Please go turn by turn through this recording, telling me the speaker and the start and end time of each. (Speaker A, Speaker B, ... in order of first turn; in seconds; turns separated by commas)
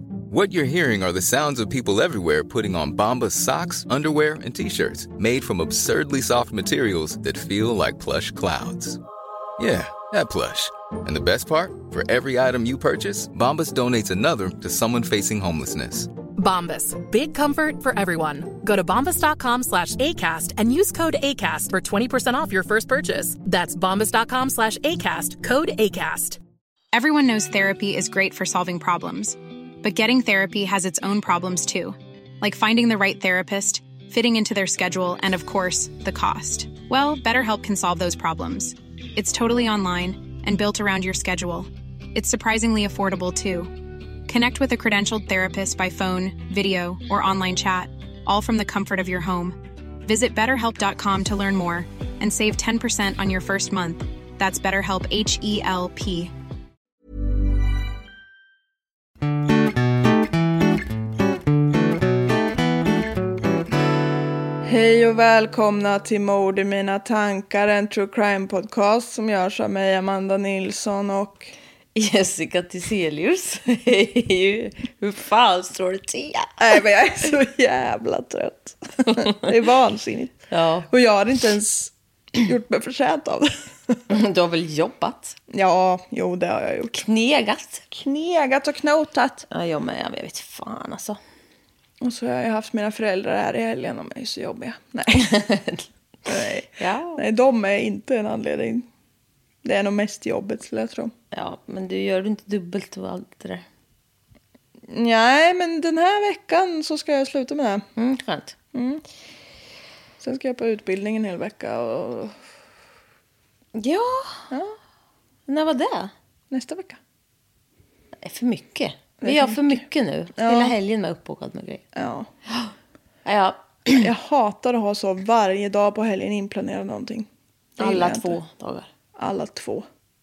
Speaker A: 0.3-9.0, Speaker A: 9.6-16.1, Speaker B: 16.4-26.4, Speaker C: 26.9-43.7, Speaker C: 44.3-56.3, Speaker D: 64.6-71.5, Speaker E: 72.0-76.6, Speaker D: 76.6-84.0, Speaker E: 80.5-80.9, Speaker E: 84.1-85.3, Speaker D: 85.5-87.0, Speaker E: 86.9-87.9, Speaker D: 87.9-89.5, Speaker E: 89.5-91.2, Speaker D: 92.0-95.3, Speaker E: 95.1-95.8, Speaker D: 96.3-98.8, Speaker E: 96.8-97.2, Speaker D: 99.6-101.1, Speaker E: 101.3-103.6, Speaker D: 104.9-107.8, Speaker E: 108.0-108.5, Speaker D: 108.7-109.0, Speaker D: 110.2-112.3, Speaker E: 113.8-114.5, Speaker D: 114.5-114.7, Speaker E: 115.5-116.1, Speaker D: 116.5-117.0, Speaker E: 118.2-121.8, Speaker D: 119.2-119.8, Speaker D: 120.4-120.7, Speaker D: 121.9-122.3, Speaker E: 123.2-124.1, Speaker D: 123.9-128.4, Speaker E: 127.8-128.9, Speaker D: 129.2-129.8